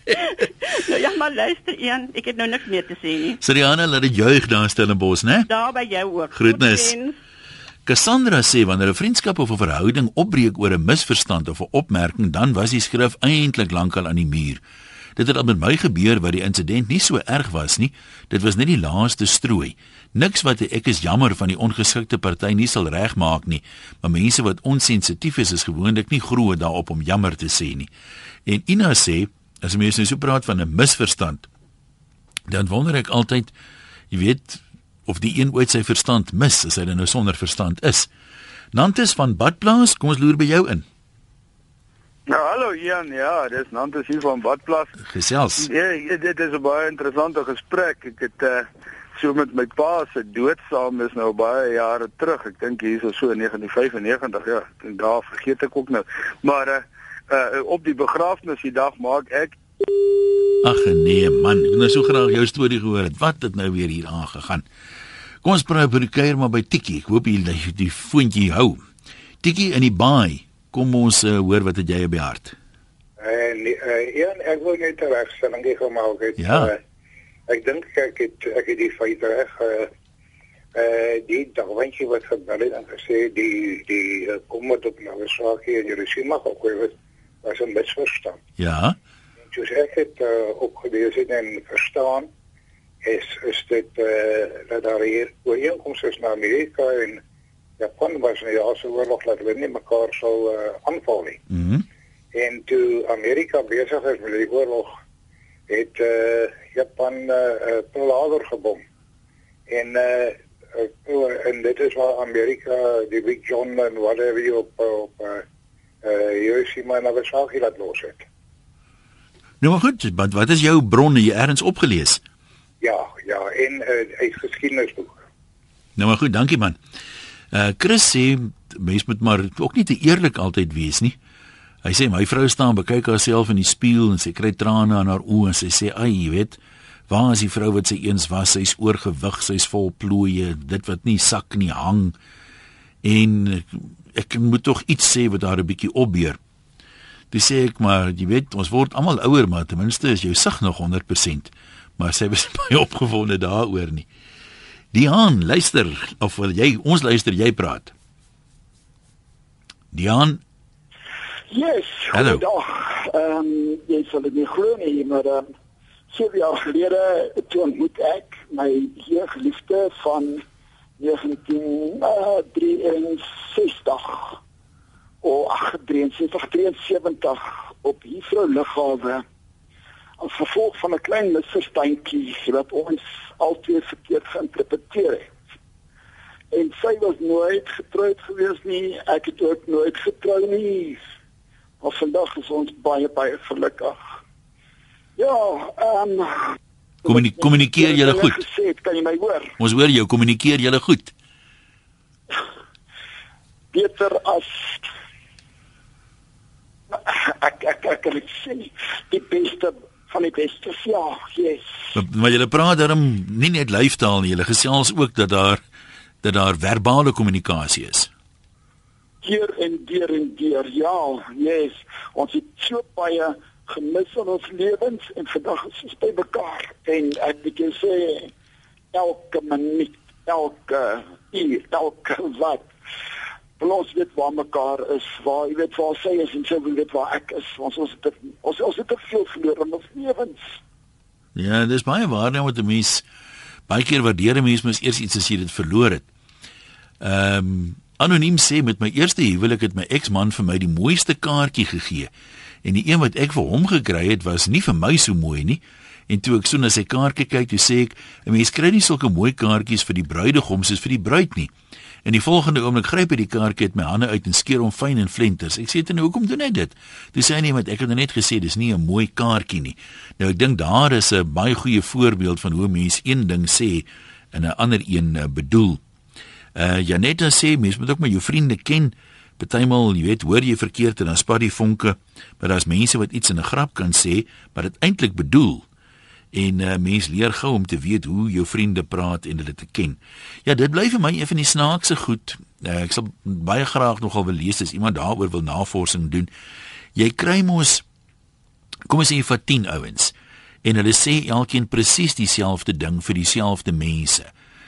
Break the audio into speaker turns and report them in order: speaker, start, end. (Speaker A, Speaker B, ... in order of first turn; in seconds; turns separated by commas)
Speaker A: 0.1-3.4, Speaker B: 3.4-5.5, Speaker A: 5.5-7.2, Speaker B: 6.3-6.9, Speaker B: 7.8-14.6, Speaker B: 15.2-27.9, Speaker B: 28.4-31.4, Speaker B: 32.5-33.5, Speaker B: 34.1-38.1, Speaker B: 38.7-40.8, Speaker C: 42.3-44.9, Speaker B: 45.0-45.7, Speaker C: 45.6-59.5, Speaker B: 60.6-64.6, Speaker B: 65.4-68.8, Speaker B: 69.4-72.5, Speaker D: 73.2-76.8, Speaker B: 76.4-76.7, Speaker D: 77.5-79.9, Speaker D: 80.7-86.9, Speaker D: 87.4-88.4, Speaker B: 88.6-89.0, Speaker D: 89.5-92.3, Speaker D: 93.0-97.2, Speaker D: 97.8-101.4, Speaker B: 101.5-101.8, Speaker D: 102.3-104.9, Speaker D: 105.7-108.8, Speaker D: 109.7-115.4, Speaker D: 116.0-118.2, Speaker B: 119.6-122.2, Speaker D: 122.8-125.2, Speaker B: 126.0-126.8, Speaker B: 127.5-131.2, Speaker B: 131.8-136.6, Speaker B: 137.1-142.1, Speaker B: 143.0-146.4, Speaker B: 147.3-154.1, Speaker B: 154.9-157.9, Speaker B: 159.9-160.4, Speaker E: 161.5-165.5, Speaker B: 162.1-162.4, Speaker E: 166.1-170.4, Speaker E: 171.0-174.4, Speaker E: 175.2-179.2, Speaker E: 180.2-185.3, Speaker E: 186.5-191.0, Speaker E: 191.8-193.9, Speaker E: 195.2-199.5, Speaker B: 197.1-198.4, Speaker B: 199.6-201.1, Speaker E: 203.7-204.8, Speaker E: 206.9-211.7, Speaker B: 211.9-215.6, Speaker B: 216.2-218.1, Speaker E: 219.2-228.3, Speaker E: 228.9-232.7, Speaker E: 233.6-240.4, Speaker B: 241.3-243.0, Speaker B: 243.7-246.0, Speaker B: 247.0-252.1, Speaker B: 252.6-261.5, Speaker B: 262.0-275.8, Speaker B: 276.5-285.6, Speaker B: 286.3-296.3, Speaker B: 296.9-297.8, Speaker B: 298.9-300.1, Speaker B: 300.6-304.3